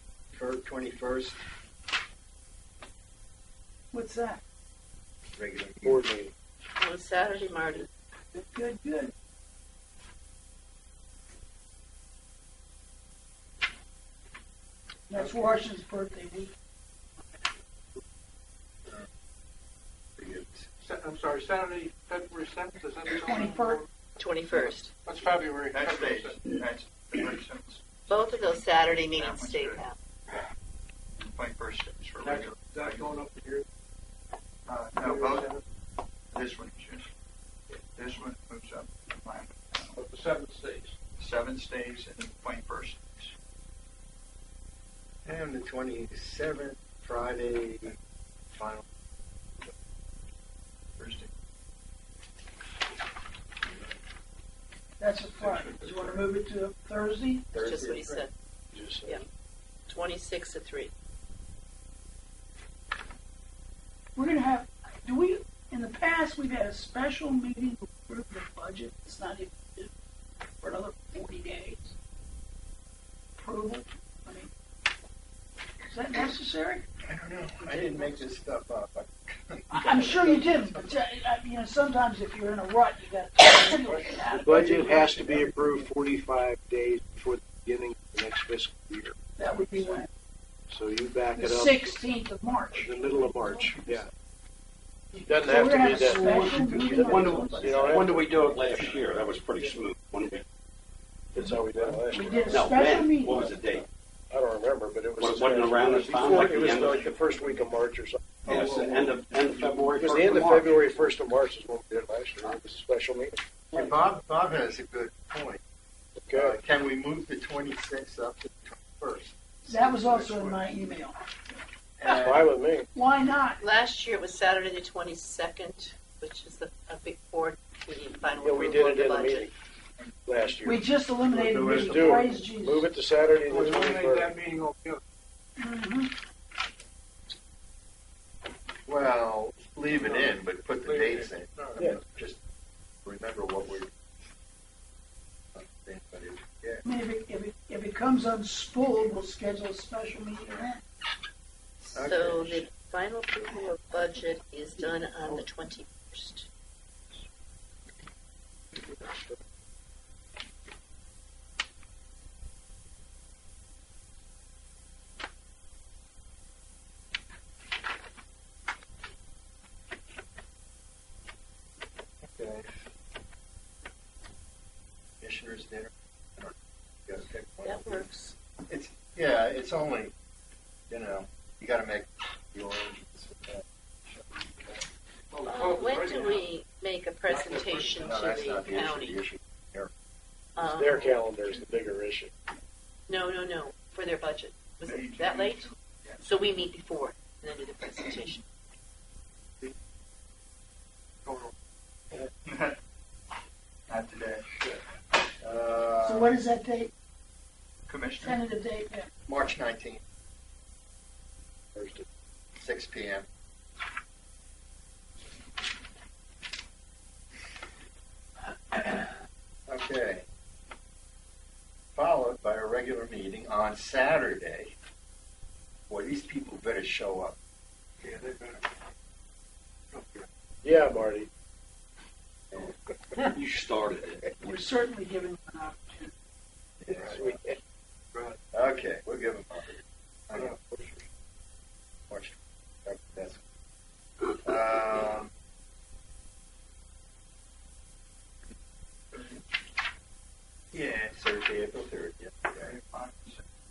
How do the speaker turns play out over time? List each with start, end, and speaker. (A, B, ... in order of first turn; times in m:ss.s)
0:00.3-0:01.4 A
0:03.9-0:04.4 B
0:05.3-0:06.0 A
0:05.8-0:06.3 C
0:06.8-0:07.9 D
0:08.3-0:09.1 B
0:15.1-0:16.5 B
0:20.2-0:20.7 A
0:20.8-0:23.9 E
0:23.3-0:23.8 B
0:24.2-0:24.9 D
0:24.5-0:26.4 E
0:25.7-0:27.9 F
0:28.1-0:30.0 D
0:29.1-0:29.8 F
0:31.2-0:33.2 F
0:32.2-0:33.6 E
0:34.7-0:35.5 F
0:34.9-0:35.6 E
0:36.3-0:37.1 F
0:38.0-0:40.0 F
0:39.9-0:41.0 E
0:41.2-0:43.3 F
0:45.2-0:48.0 A
0:48.5-0:48.8 A
0:51.0-0:51.3 F
0:55.0-0:57.5 B
0:55.4-0:55.9 E
0:57.5-0:58.3 A
0:57.6-0:58.3 D
0:58.7-0:59.2 C
0:59.9-1:00.9 D
1:04.2-1:09.9 B
1:10.6-1:12.0 B
1:13.4-1:14.5 B
1:15.8-1:16.8 B
1:17.0-1:20.9 A
1:17.6-1:18.3 B
1:19.7-1:25.1 B
1:24.4-1:29.2 C
1:29.4-1:30.1 B
1:30.7-1:32.0 C
1:31.4-1:33.9 B
1:32.7-1:34.1 C
1:35.1-1:37.9 B
1:35.3-1:38.2 C
1:36.3-1:40.4 G
1:41.3-1:42.7 C
1:41.8-1:43.9 G
1:42.1-1:43.5 B
1:43.3-1:43.8 A
1:44.3-1:48.2 C
1:45.2-1:47.6 G
1:48.5-1:49.2 A
1:48.5-1:51.1 G
1:49.9-1:53.4 C
1:53.7-1:55.6 A
1:56.2-1:56.6 C
1:56.3-2:00.5 A
1:59.7-2:01.2 B
2:02.0-2:02.4 B
2:02.0-2:02.9 C
2:02.9-2:03.6 B
2:03.6-2:09.5 D
2:08.4-2:09.5 C
2:10.0-2:10.6 F
2:10.3-2:14.3 C
2:10.6-2:12.9 B
2:13.4-2:15.0 E
2:15.6-2:16.1 B
2:18.9-2:22.4 A
2:19.9-2:22.0 E
2:23.0-2:24.1 A
2:25.5-2:26.8 A
2:26.8-2:30.8 B
2:31.9-2:36.5 D
2:31.9-2:32.7 A
2:52.2-2:52.9 A
2:55.2-2:56.5 A
2:57.1-2:58.1 A
2:57.7-2:58.4 D
2:58.7-3:00.1 A
3:00.9-3:04.9 A
3:05.3-3:06.5 E
3:05.5-3:09.2 D
3:07.2-3:08.8 E
3:07.9-3:09.9 A
3:10.6-3:11.0 D
3:10.6-3:12.3 C
3:10.9-3:11.7 F
3:13.1-3:15.6 D
3:14.8-3:16.6 F
3:16.2-3:18.4 D
3:21.2-3:21.5 E
3:22.4-3:22.8 F
3:23.9-3:24.5 F
3:25.4-3:26.4 A
3:26.0-3:26.9 B
3:27.9-3:28.4 F
3:28.2-3:29.1 B
3:29.3-3:30.0 A
3:31.8-3:32.0 C
3:32.6-3:33.2 A
3:39.7-3:40.2 A
3:42.0-3:44.7 A
3:45.9-3:47.4 A
3:48.0-3:48.7 E
3:49.9-3:50.3 E
3:50.6-3:51.3 C
3:53.3-3:54.6 G
3:54.4-3:56.1 B
3:56.9-3:57.4 A
3:56.9-3:57.6 C
3:58.5-4:00.6 A
4:00.4-4:01.0 C
4:02.1-4:03.4 A
4:04.4-4:05.3 A
4:10.7-4:12.8 A
4:12.5-4:13.4 F